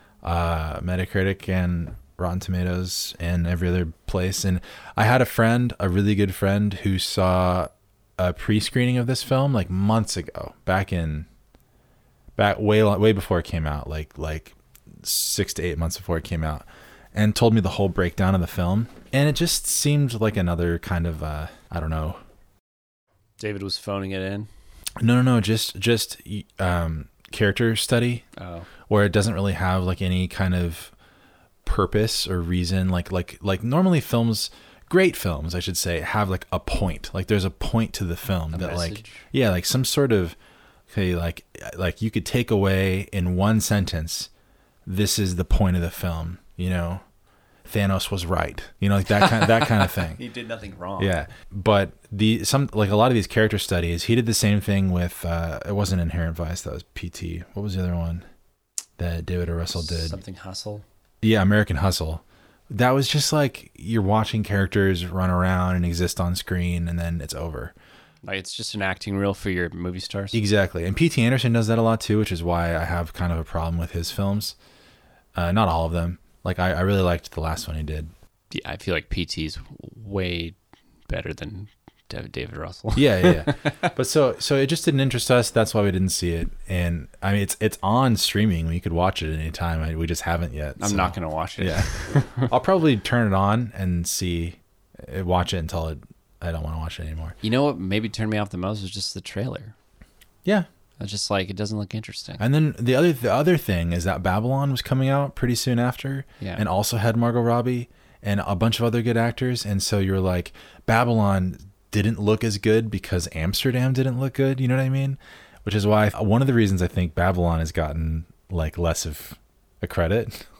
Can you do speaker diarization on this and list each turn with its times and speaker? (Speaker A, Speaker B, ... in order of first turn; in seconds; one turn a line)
Speaker A: 0.2-11.3
Speaker A: 12.4-22.2
Speaker B: 23.4-24.5
Speaker A: 25.0-28.2
Speaker B: 28.4-28.7
Speaker A: 28.9-30.9
Speaker A: 31.6-40.4
Speaker B: 38.5-39.2
Speaker A: 40.9-44.3
Speaker A: 44.9-47.0
Speaker A: 47.7-50.2
Speaker B: 49.1-51.1
Speaker A: 51.0-58.2
Speaker A: 59.0-60.2
Speaker B: 59.7-60.8
Speaker A: 61.2-67.7
Speaker B: 68.2-70.4
Speaker A: 70.3-74.5
Speaker A: 75.3-78.1
Speaker B: 78.5-80.5
Speaker B: 81.1-83.9
Speaker A: 82.9-97.3
Speaker B: 90.8-92.5
Speaker B: 97.4-99.7
Speaker B: 101.0-102.4
Speaker A: 102.4-120.5